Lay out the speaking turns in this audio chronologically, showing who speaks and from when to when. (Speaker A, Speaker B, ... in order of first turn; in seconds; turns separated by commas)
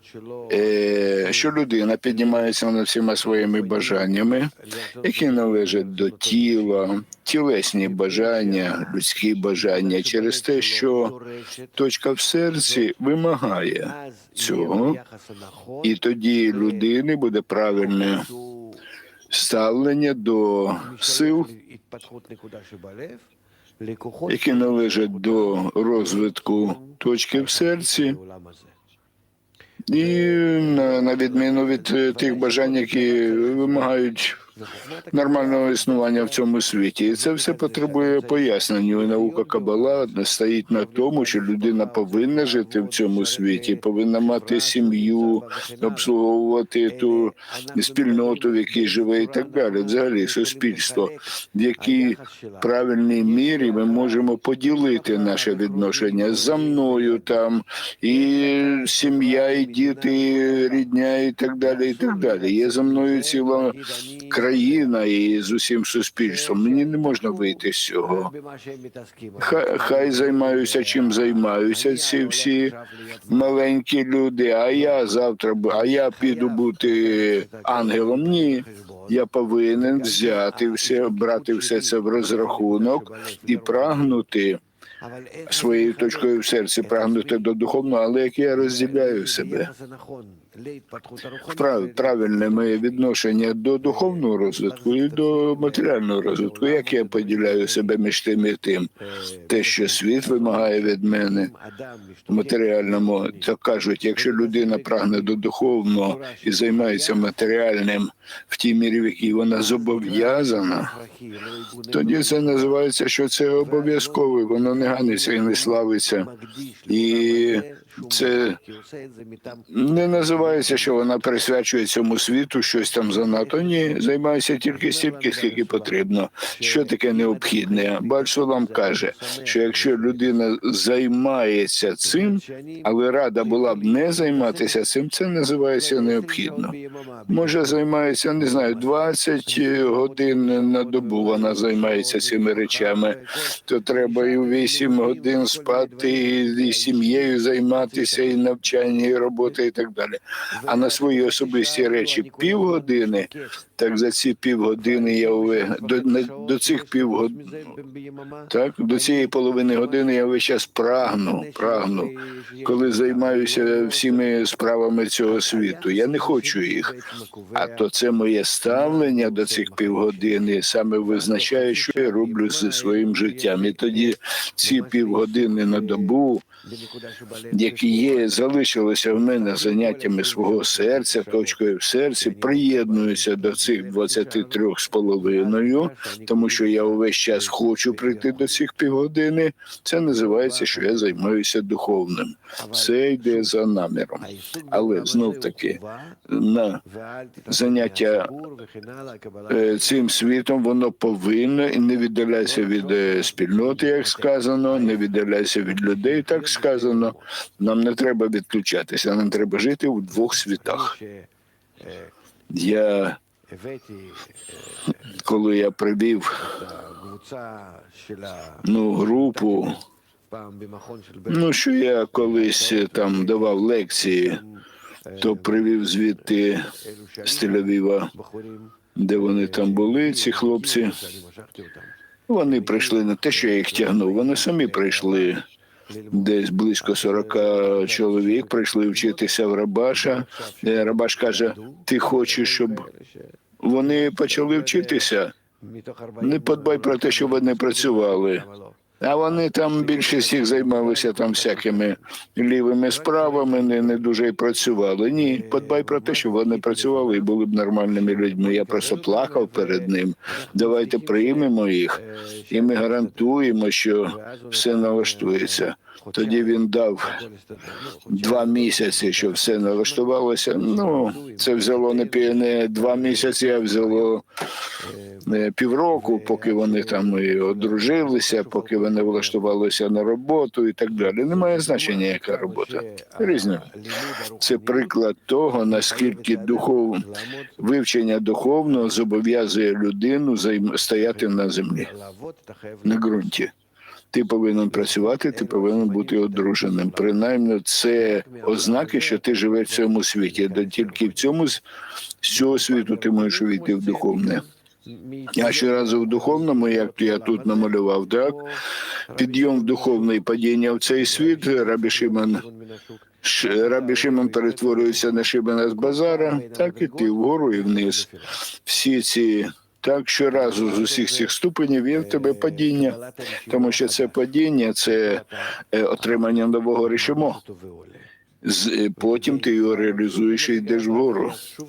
Speaker A: 0.5-11.2, Speaker A: 11.8-15.0, Speaker A: 15.8-18.3, Speaker A: 19.3-21.5, Speaker A: 24.3-28.2, Speaker A: 29.9-34.4, Speaker A: 35.1-63.8, Speaker A: 64.3-68.3, Speaker A: 69.4-72.8, Speaker A: 73.3-84.6, Speaker A: 85.5-89.7, Speaker A: 91.4-98.9, Speaker A: 99.5-101.5, Speaker A: 102.3-110.9, Speaker A: 111.9-116.3, Speaker A: 116.9-118.6, Speaker A: 119.7-136.8, Speaker A: 137.3-157.7, Speaker A: 158.5-162.1, Speaker A: 162.6-167.0, Speaker A: 167.6-176.4, Speaker A: 177.5-196.8, Speaker A: 197.5-198.3, Speaker A: 199.5-211.0, Speaker A: 212.5-213.2, Speaker A: 215.2-216.6, Speaker A: 218.6-219.8, Speaker A: 221.3-224.4, Speaker A: 225.2-226.7, Speaker A: 227.2-228.1, Speaker A: 229.0-231.1, Speaker A: 232.3-235.4, Speaker A: 236.1-242.9, Speaker A: 243.6-245.3, Speaker A: 246.2-248.5, Speaker A: 249.0-267.2, Speaker A: 268.1-274.2, Speaker A: 275.2-283.7, Speaker A: 284.4-287.1, Speaker A: 287.6-291.9, Speaker A: 292.9-293.5, Speaker A: 294.1-301.6, Speaker A: 302.2-304.5, Speaker A: 305.4-308.4, Speaker A: 309.2-312.4, Speaker A: 313.2-318.1, Speaker A: 318.6-327.4, Speaker A: 328.4-331.4